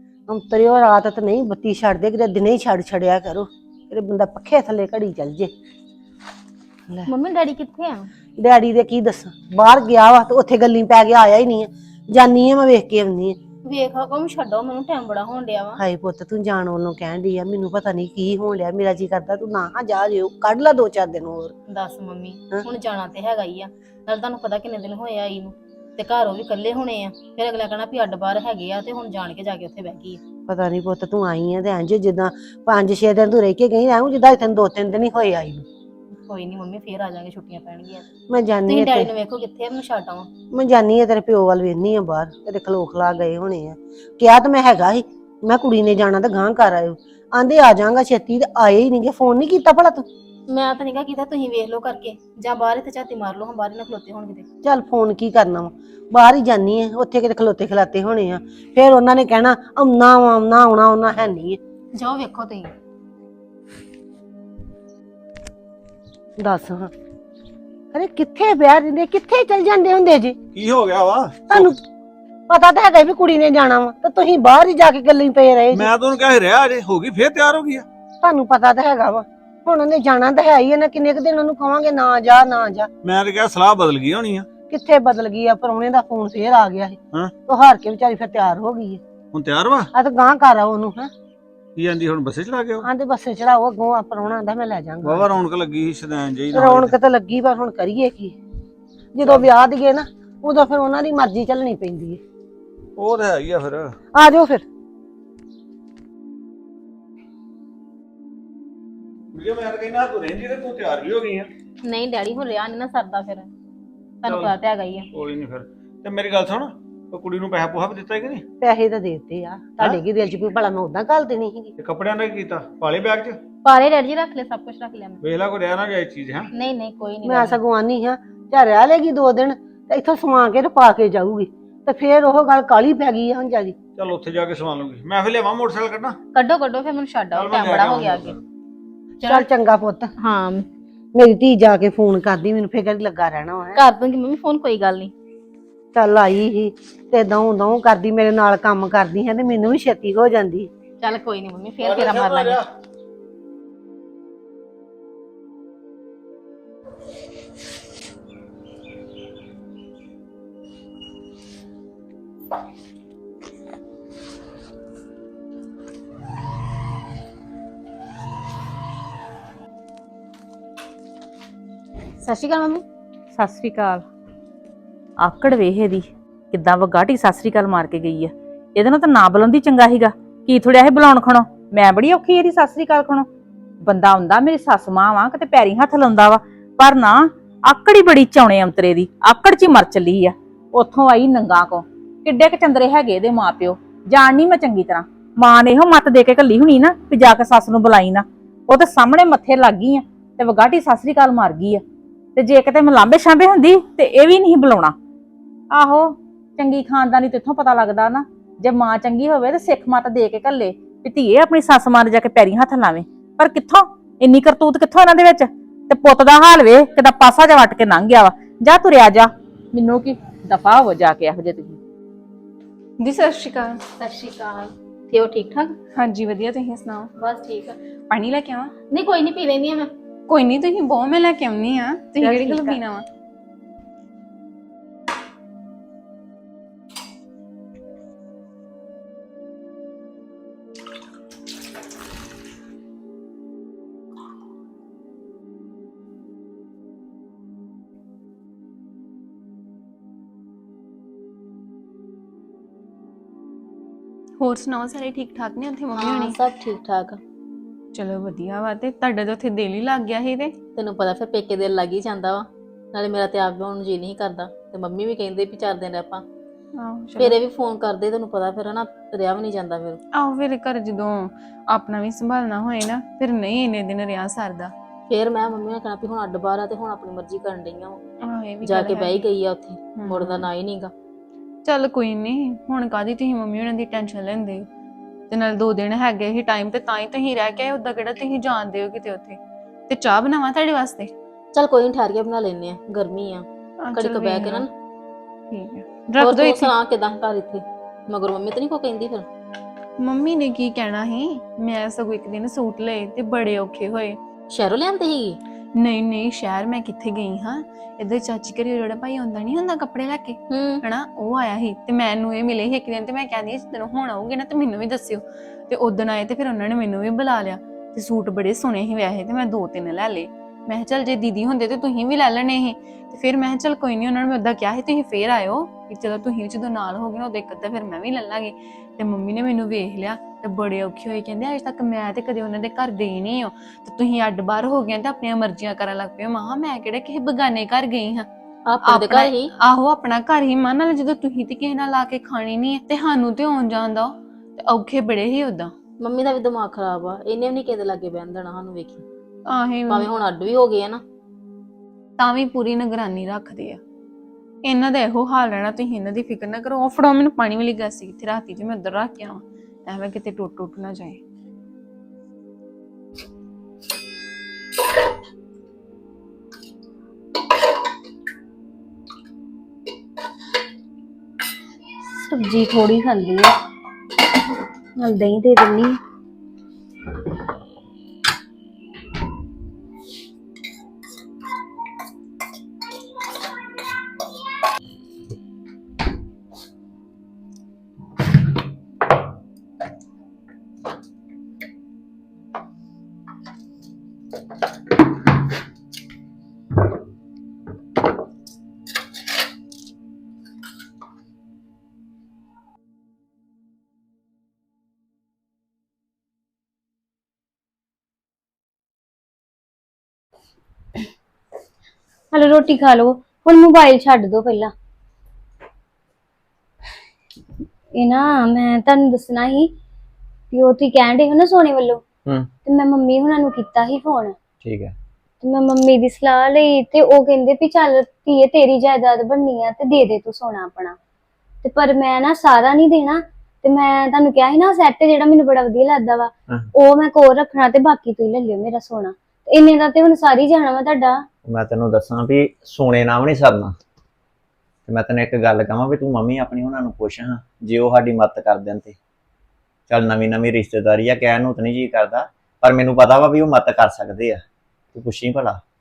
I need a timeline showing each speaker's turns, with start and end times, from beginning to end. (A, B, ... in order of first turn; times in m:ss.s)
0:00.3-0:05.5 A
0:07.0-0:08.1 B
0:08.4-0:13.4 A
0:13.6-0:15.8 B
0:15.8-0:21.5 A
0:21.7-0:30.2 B
0:30.5-0:35.6 A
0:36.2-0:38.1 B
0:38.3-0:39.1 A
0:38.6-0:40.3 B
0:40.5-0:50.0 A
0:50.5-0:54.4 B
0:54.6-1:01.6 A
1:01.9-1:02.7 B
1:06.4-1:06.9 A
1:07.9-1:10.4 A
1:10.5-1:11.8 C
1:11.5-1:11.8 A
1:12.5-1:15.9 A
1:15.7-1:17.8 C
1:18.2-1:22.9 A
1:23.0-1:24.5 C
1:24.7-1:29.0 A
1:29.3-1:29.9 C
1:29.9-1:31.1 A
1:31.8-1:32.9 C
1:32.8-1:35.4 A
1:35.0-1:37.0 C
1:36.5-1:38.4 A
1:39.2-1:42.2 A
1:39.2-1:39.5 C
1:43.0-1:44.0 C
1:44.1-1:44.6 A
1:49.3-1:51.5 C
1:51.8-1:53.5 B
1:54.2-1:55.1 B
1:54.2-1:54.5 C
1:55.1-1:58.4 C
1:58.6-2:01.7 A
1:59.8-2:00.0 C
2:01.8-2:03.4 C
2:03.6-2:05.2 B
2:05.2-2:06.5 C
2:06.5-2:07.6 B
2:07.2-2:13.7 A
2:14.0-2:16.2 C
2:16.3-2:18.3 B
2:17.3-2:18.4 C
2:19.2-2:19.5 B
2:19.2-2:20.1 A
2:20.2-2:20.7 B
2:21.1-2:23.8 A
2:23.7-2:25.1 B
2:25.9-2:30.7 A
2:31.0-2:32.6 B
2:31.8-2:32.7 C
2:52.2-2:52.8 B
2:53.3-2:54.0 D
2:55.2-3:03.3 D
3:03.8-3:21.8 D
3:22.4-3:25.0 D
3:25.7-3:41.8 D
3:43.0-3:43.9 E
3:44.0-3:45.8 B
3:45.9-3:47.1 E
3:47.2-3:47.8 B
3:48.1-3:48.7 E
3:48.9-3:49.9 B
3:50.3-3:53.0 E
3:52.2-3:52.8 B
4:14.4-4:16.4 E
4:15.9-4:17.2 B
4:17.9-4:20.6 E
4:20.7-4:26.2 B
4:26.7-4:27.4 E
4:27.2-4:30.0 B
4:30.1-4:34.7 E
4:35.1-4:38.0 B
4:38.2-4:39.3 E
4:38.6-4:40.9 B
4:39.9-4:40.5 E
4:41.6-4:44.6 E
4:45.3-4:49.4 E
4:49.9-4:51.1 E
4:51.5-4:54.7 B
4:53.8-4:54.7 E
4:55.5-4:56.7 E
4:56.2-4:59.3 B
5:00.0-5:04.2 E
5:04.5-5:05.4 B
5:05.8-5:38.3 E
5:10.5-5:10.8 B
5:38.6-5:39.5 B
5:38.8-5:45.7 E
5:46.0-5:49.0 B
5:49.5-5:50.1 E
5:49.9-5:51.0 B
5:52.2-5:53.8 E
5:54.6-6:01.2 E
6:12.2-6:13.5 F
6:15.0-6:16.0 F
6:52.3-6:54.7 F
6:58.0-6:59.7 F
7:00.5-7:02.0 F
7:02.6-7:04.3 F
7:04.6-7:04.9 G
7:05.4-7:11.0 F
7:11.6-7:21.1 F
7:21.4-7:23.7 G
7:24.9-7:29.0 G
7:29.9-7:34.4 G
7:34.9-7:35.6 G